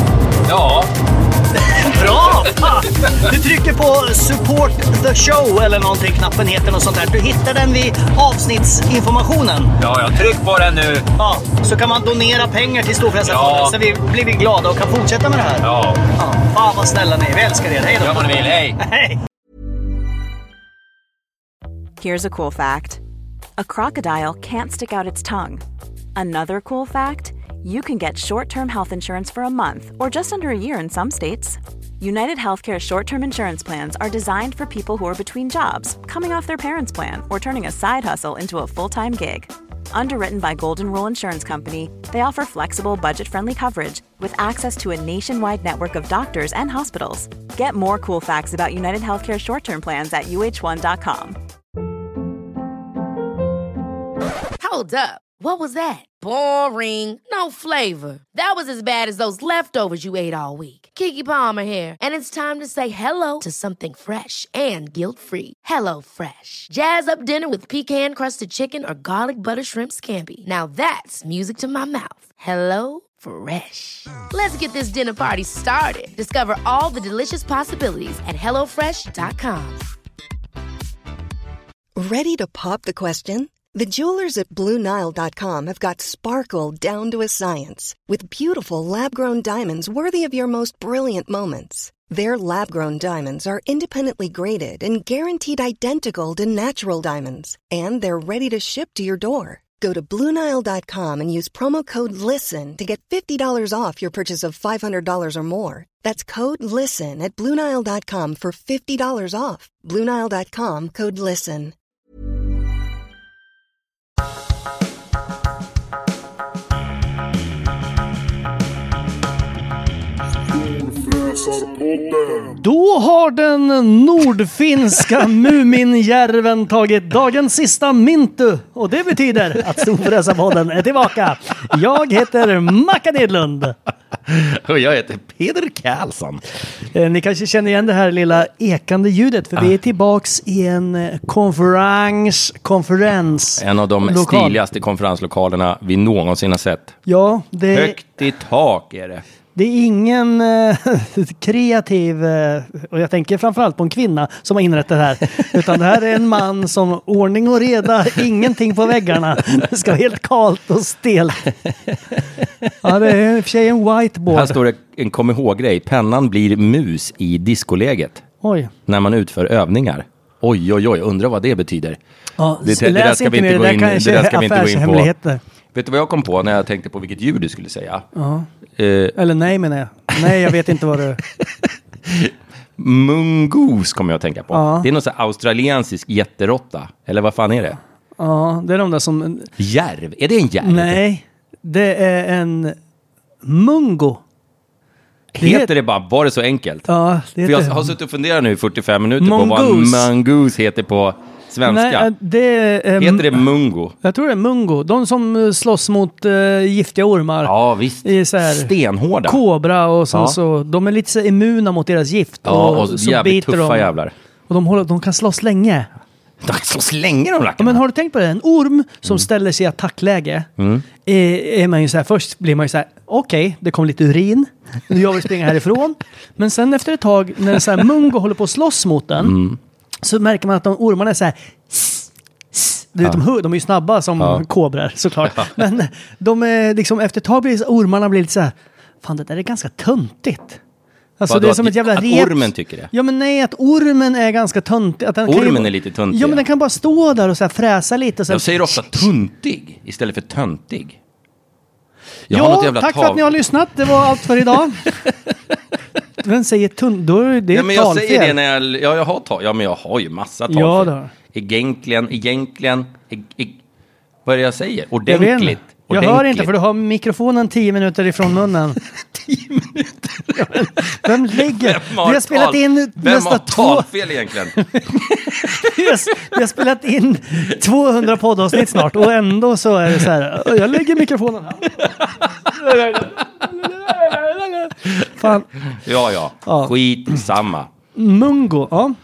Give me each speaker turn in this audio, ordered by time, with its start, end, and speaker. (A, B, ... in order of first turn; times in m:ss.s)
0:00.5-0:00.9 A
0:01.8-0:09.7 B
0:02.1-0:02.6 A
0:09.8-0:11.1 A
0:11.2-0:15.6 B
0:13.2-0:13.8 A
0:15.6-0:16.1 A
0:16.2-0:18.3 B
0:18.0-0:18.8 A
0:22.0-0:23.0 C
0:23.6-0:25.6 C
0:26.2-0:51.4 C
0:54.6-1:19.8 D
1:22.0-1:51.7 E
2:02.4-2:13.7 B
2:14.3-2:16.4 F
2:16.9-2:24.6 B
2:23.6-2:27.0 F
2:27.0-2:28.0 B
2:27.7-2:29.2 F
2:29.5-2:41.4 B
2:42.8-2:44.6 B
2:44.3-2:48.2 F
2:48.4-2:48.7 B
2:48.9-2:52.0 F
2:52.4-2:55.4 B
2:52.6-2:55.1 F
2:55.7-2:58.0 F
2:58.2-2:58.5 B
2:58.8-2:59.2 F
2:59.1-3:01.2 B
3:00.2-3:00.5 F
3:02.1-3:07.8 F
3:04.5-3:04.9 B
3:08.2-3:09.5 B
3:09.6-3:11.0 F
3:10.6-3:12.8 B
3:13.4-3:14.2 B
3:15.3-3:16.9 F
3:15.4-3:15.7 B
3:16.9-3:17.9 B
3:17.4-3:22.1 F
3:19.2-3:20.1 B
3:21.6-3:23.4 B
3:23.0-3:23.9 F
3:24.0-3:27.5 B
3:27.4-3:29.4 F
3:28.0-3:28.7 B
3:29.2-3:33.9 B
3:30.1-3:30.4 F
3:32.4-3:34.1 F
3:34.5-3:35.9 B
3:36.4-3:37.8 F
3:37.6-3:40.5 B
3:40.6-3:40.8 F
3:41.0-3:49.3 B
3:49.2-3:49.6 F
3:50.0-4:00.6 B
4:01.2-4:09.1 B
4:01.3-4:02.9 F
4:05.2-4:06.4 F
4:08.3-4:11.0 F
4:12.3-4:13.2 F
4:12.3-4:14.9 B
4:16.2-4:18.3 B
4:17.5-4:23.6 F
4:20.5-4:21.1 B
4:24.2-4:26.5 F
4:25.1-4:28.8 B
4:29.2-4:34.6 F
4:30.3-4:33.9 B
4:34.5-4:34.9 B
4:35.3-4:35.8 F
4:35.5-4:41.9 B
4:42.4-4:45.5 B
4:45.7-4:47.7 F
4:46.4-4:46.7 B
4:47.9-4:49.0 B